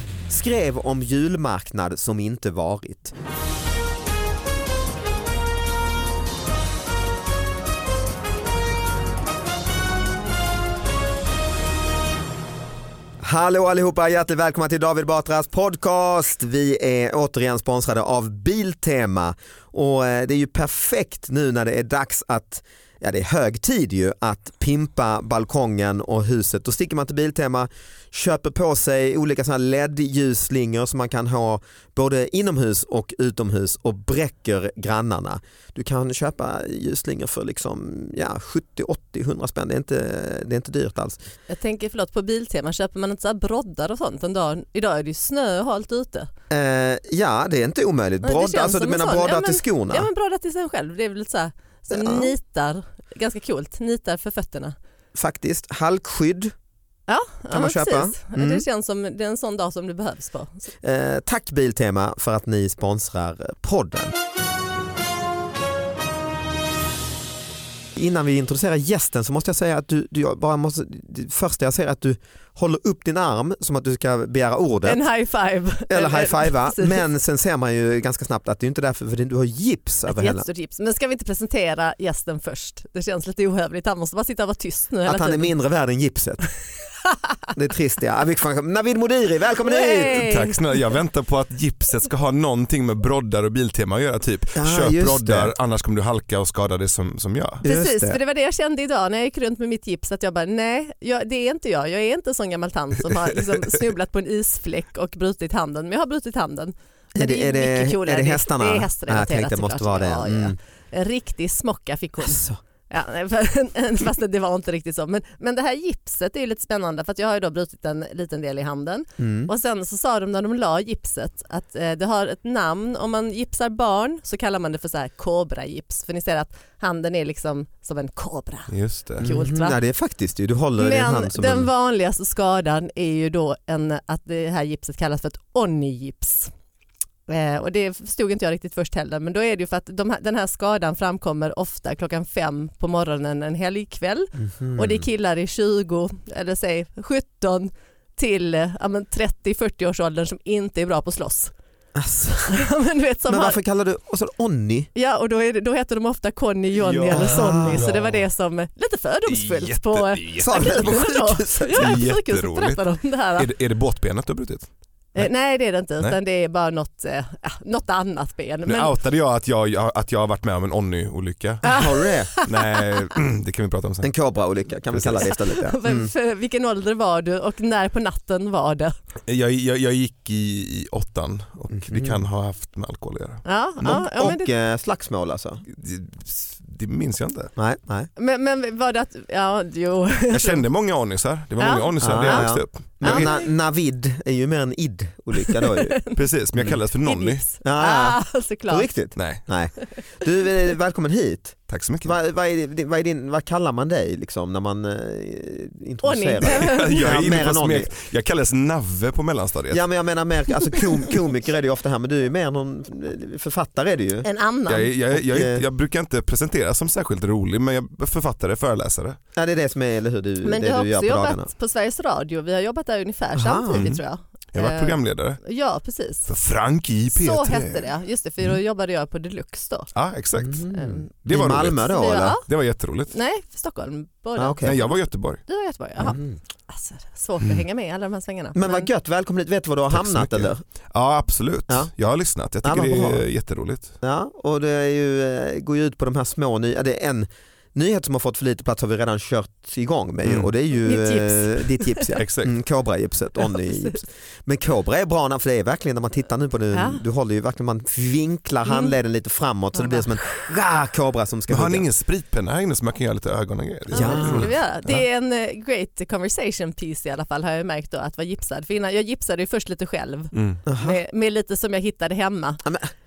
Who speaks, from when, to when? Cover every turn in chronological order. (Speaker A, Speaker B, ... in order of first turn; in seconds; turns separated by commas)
Speaker A: 0.3-3.1, Speaker A: 13.2-41.2, Speaker B: 41.5-46.3, Speaker A: 46.5-50.1, Speaker B: 48.2-54.7, Speaker A: 51.9-52.3, Speaker A: 55.1-56.5, Speaker B: 57.1-60.7, Speaker A: 57.5-58.6, Speaker A: 60.8-64.1, Speaker A: 67.9-75.0, Speaker B: 74.8-77.0, Speaker A: 75.9-80.5, Speaker B: 80.1-85.5, Speaker A: 85.0-86.4, Speaker A: 87.5-90.2, Speaker B: 89.6-90.6, Speaker C: 90.2-97.6, Speaker A: 94.5-95.5, Speaker A: 97.6-98.2, Speaker B: 97.6-129.8, Speaker A: 107.2-110.6, Speaker A: 112.2-112.6, Speaker A: 119.2-119.5, Speaker C: 128.7-129.3, Speaker A: 129.2-131.7, Speaker B: 130.8-136.5, Speaker B: 137.3-151.5, Speaker A: 144.4-145.1, Speaker A: 151.9-152.6, Speaker B: 152.5-153.6, Speaker A: 153.3-154.9, Speaker B: 154.9-163.5, Speaker C: 156.7-158.2, Speaker A: 157.1-157.9, Speaker C: 159.2-165.3, Speaker A: 160.4-162.0, Speaker B: 165.1-168.9, Speaker C: 168.7-171.8, Speaker A: 171.6-172.3, Speaker B: 171.6-173.0, Speaker C: 172.4-174.1, Speaker A: 174.0-176.1, Speaker C: 174.9-175.2, Speaker B: 175.3-178.9, Speaker C: 179.3-183.4, Speaker A: 181.7-182.2, Speaker B: 183.4-184.5, Speaker A: 183.8-185.6, Speaker C: 185.7-187.5, Speaker A: 187.6-188.1, Speaker B: 188.2-190.6, Speaker C: 190.3-193.3, Speaker B: 191.6-192.5, Speaker A: 192.0-195.9, Speaker B: 193.0-193.5, Speaker B: 195.6-196.2, Speaker C: 196.1-197.4, Speaker B: 197.0-198.9, Speaker A: 197.6-207.9, Speaker C: 199.2-199.4, Speaker C: 201.7-202.1, Speaker B: 206.0-207.1, Speaker C: 206.4-209.8, Speaker A: 209.7-214.3, Speaker B: 214.2-214.9, Speaker C: 214.7-219.2, Speaker A: 215.1-215.6, Speaker A: 219.3-221.5, Speaker B: 220.4-226.3, Speaker A: 223.3-223.9, Speaker C: 223.7-224.0, Speaker C: 224.5-225.4, Speaker C: 226.3-227.9, Speaker B: 227.1-229.9, Speaker C: 229.9-230.7, Speaker A: 230.4-232.4, Speaker B: 230.7-231.1, Speaker C: 231.2-231.8, Speaker B: 231.9-232.4, Speaker C: 232.4-233.1, Speaker B: 233.1-238.9, Speaker A: 234.4-234.8, Speaker C: 234.6-235.4, Speaker A: 236.0-236.4, Speaker A: 238.5-240.6, Speaker C: 239.9-243.9, Speaker A: 242.6-243.2, Speaker A: 244.0-261.9, Speaker C: 250.2-250.5, Speaker B: 250.8-252.2, Speaker C: 252.2-252.6, Speaker B: 253.4-254.0, Speaker B: 256.7-257.0, Speaker B: 258.6-258.9, Speaker B: 259.7-260.1, Speaker C: 261.5-265.0, Speaker A: 263.9-264.5, Speaker B: 263.9-272.6, Speaker C: 270.3-270.6, Speaker A: 270.6-271.0, Speaker A: 272.6-272.9